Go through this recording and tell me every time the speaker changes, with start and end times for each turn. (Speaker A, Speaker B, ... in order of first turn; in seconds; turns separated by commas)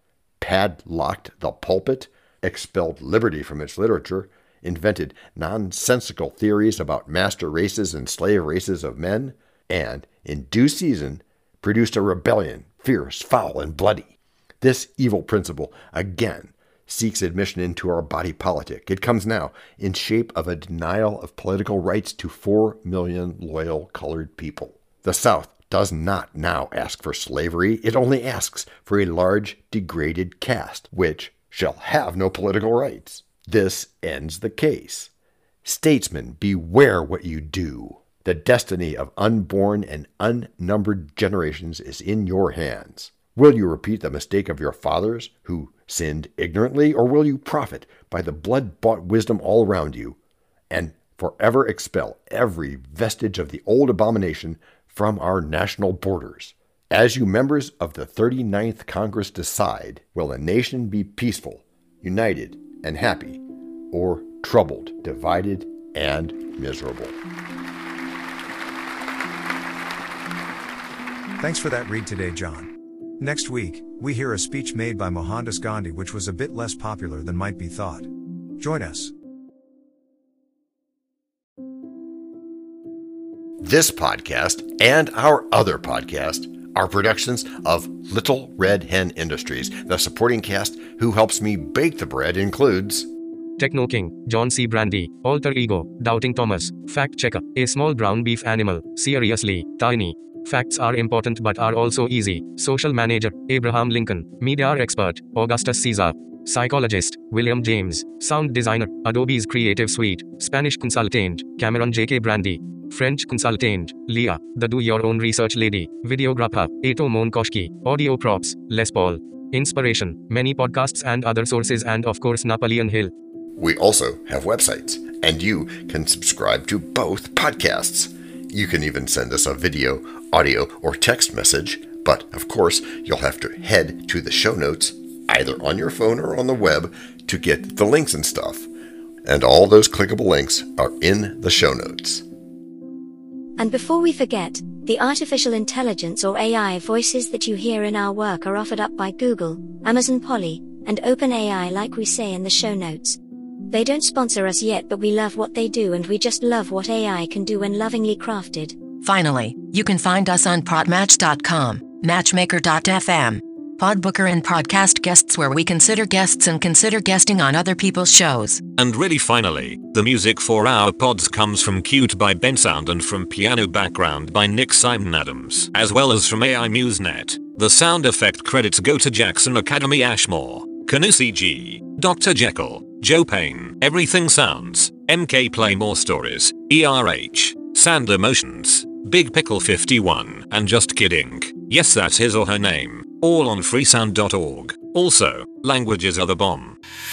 Speaker A: 0.4-35.1, Speaker A: 35.6-50.2, Speaker A: 50.7-67.2, Speaker B: 71.4-79.1, Speaker A: 83.6-93.1, Speaker C: 93.6-123.1, Speaker A: 123.6-138.7, Speaker A: 139.2-142.2, Speaker D: 143.6-158.8, Speaker E: 159.0-168.6, Speaker F: 168.7-196.8